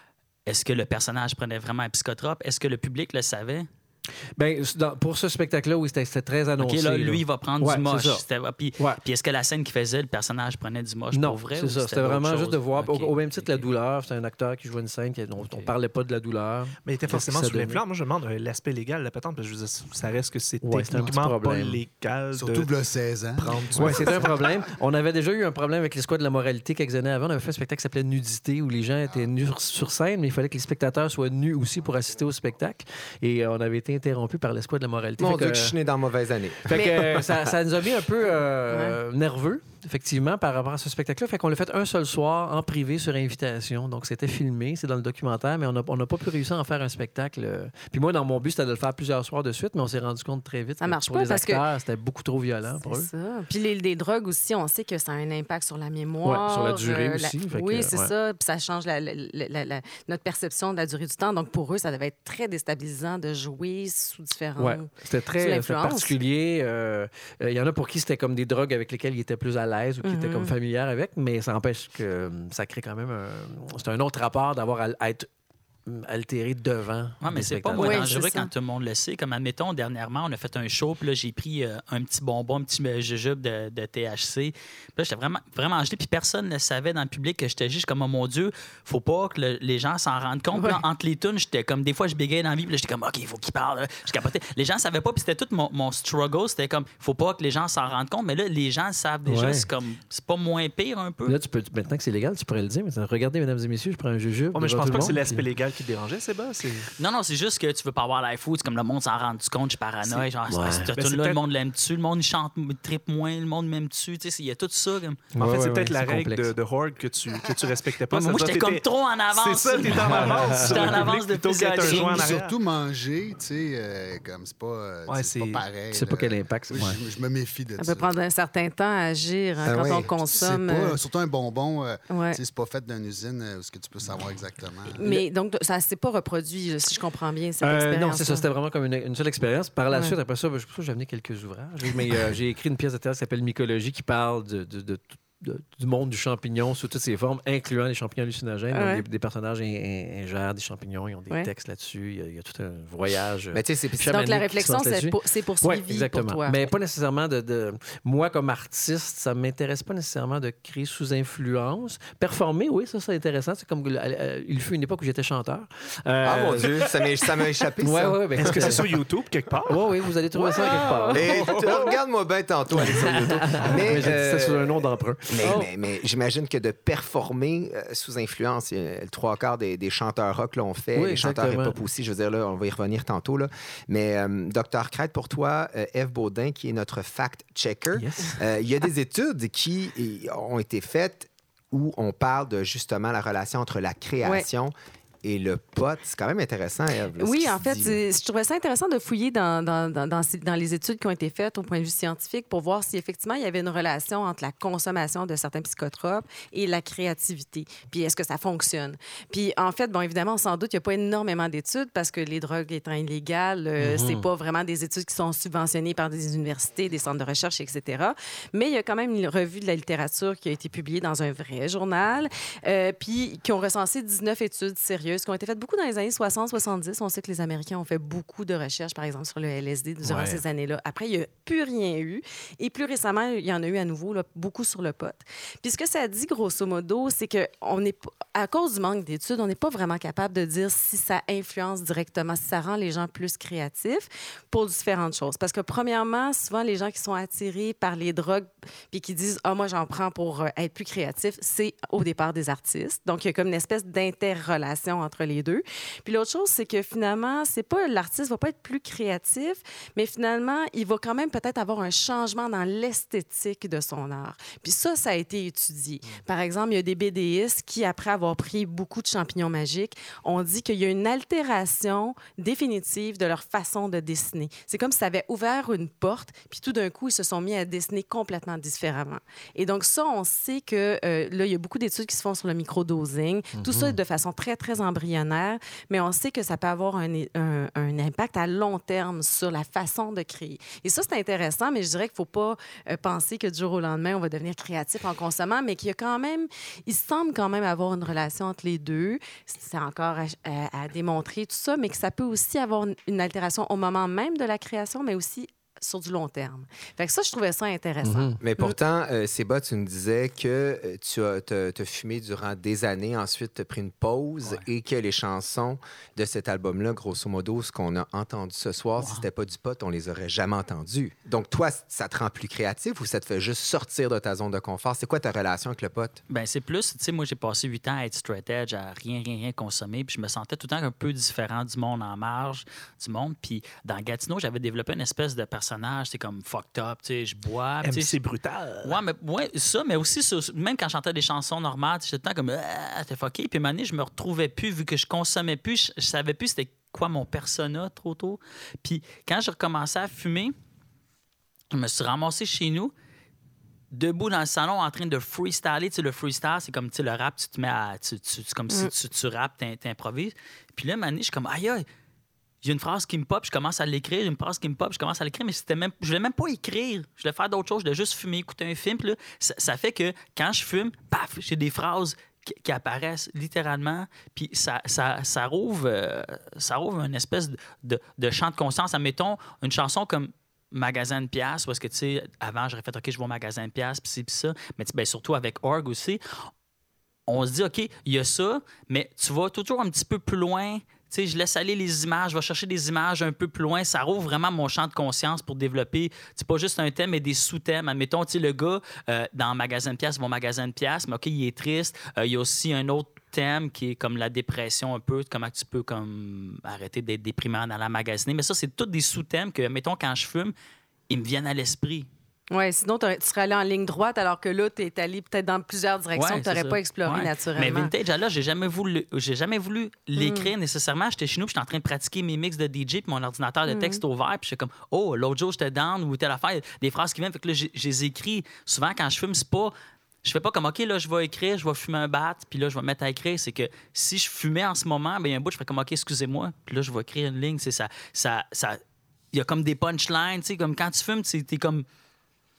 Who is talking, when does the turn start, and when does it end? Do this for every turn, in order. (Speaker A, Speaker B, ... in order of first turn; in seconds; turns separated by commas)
Speaker A: 0.5-3.7, Speaker B: 4.4-8.2, Speaker A: 6.6-13.7, Speaker B: 11.1-17.8, Speaker C: 16.8-22.7, Speaker B: 20.6-21.8, Speaker D: 22.4-24.5, Speaker C: 23.4-24.5, Speaker B: 23.8-35.7, Speaker E: 35.2-37.5, Speaker B: 36.6-53.1, Speaker F: 38.7-39.0, Speaker F: 50.8-51.6, Speaker F: 52.7-66.1, Speaker B: 56.2-58.1, Speaker B: 64.6-75.3, Speaker F: 70.0-70.5, Speaker B: 75.8-78.2, Speaker A: 77.2-101.3, Speaker F: 77.8-78.5, Speaker F: 90.5-90.8, Speaker B: 99.2-99.7, Speaker B: 101.2-105.5, Speaker C: 104.5-106.9, Speaker A: 107.0-115.2, Speaker B: 110.5-110.9, Speaker C: 110.9-111.5, Speaker B: 115.3-116.5, Speaker C: 115.4-122.6, Speaker A: 118.2-122.3, Speaker B: 119.9-121.0, Speaker D: 121.8-128.1, Speaker C: 125.1-125.7, Speaker B: 125.9-127.0, Speaker F: 127.8-131.0, Speaker E: 129.6-130.1, Speaker D: 129.7-135.1, Speaker F: 132.1-132.4, Speaker F: 135.0-138.5, Speaker B: 137.6-167.1, Speaker F: 148.7-149.0, Speaker E: 153.5-154.2, Speaker F: 154.1-156.6, Speaker E: 166.2-168.8, Speaker B: 167.8-168.9, Speaker C: 168.4-171.9, Speaker B: 169.7-171.4, Speaker F: 170.6-171.3, Speaker E: 171.1-198.0, Speaker B: 172.7-175.6, Speaker F: 175.4-175.7, Speaker B: 180.9-181.8, Speaker B: 187.9-188.4, Speaker F: 197.2-308.8, Speaker B: 213.8-214.2, Speaker B: 230.0-230.4, Speaker B: 283.5-283.9, Speaker B: 308.0-308.4, Speaker E: 308.4-326.2, Speaker A: 319.0-319.2, Speaker A: 326.3-338.1, Speaker C: 337.8-339.0, Speaker A: 338.8-350.5, Speaker A: 351.7-352.9, Speaker A: 353.9-361.8, Speaker A: 362.6-386.2, Speaker A: 387.3-410.5, Speaker A: 411.1-412.1, Speaker F: 412.5-417.9, Speaker A: 416.1-429.7, Speaker F: 420.2-420.5, Speaker F: 423.7-424.0, Speaker A: 430.2-438.8, Speaker A: 439.3-441.9